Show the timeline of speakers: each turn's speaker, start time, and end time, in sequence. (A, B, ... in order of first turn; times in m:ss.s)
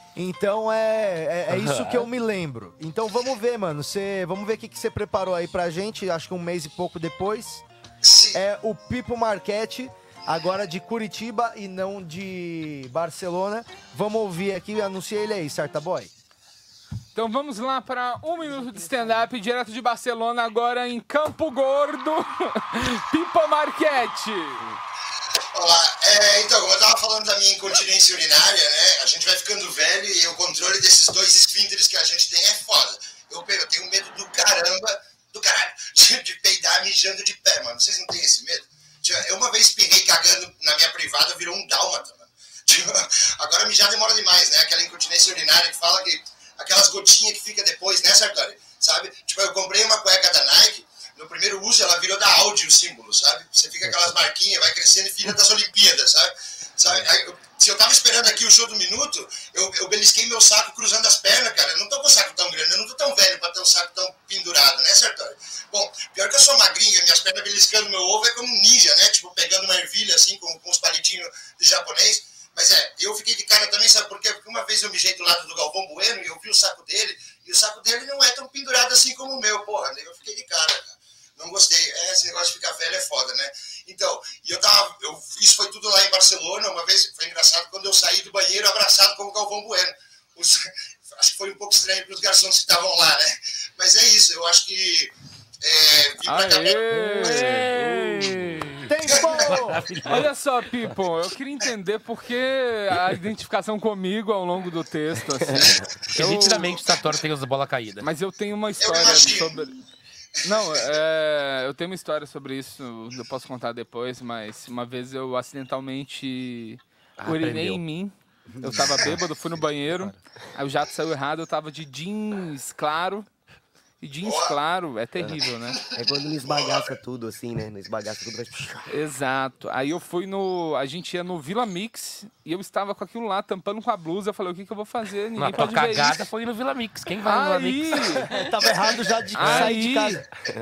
0:00.2-0:07.6 A
0:01.5-0:02.0 B
0:08.0-0:08.4 C
0:08.3-0:16.1 A
0:17.1-0:24.6 D
0:25.5-1:36.8 C
1:36.2-1:38.5 D
1:36.9-1:40.3 B
1:38.9-1:39.9 A
1:40.0-1:46.8 D
1:46.1-1:48.1 B
1:48.0-1:49.7 D
1:48.8-1:49.6 C
1:50.4-2:03.3 D
1:57.2-1:57.8 B
1:58.6-1:58.9 E
2:04.0-2:05.8 D
2:04.2-2:04.6 C
2:05.9-2:08.9 E
2:06.4-2:06.8 C
2:08.9-2:16.3 D
2:15.4-2:18.2 B
2:17.2-2:18.3 D
2:18.2-2:20.2 A
2:19.3-2:20.2 D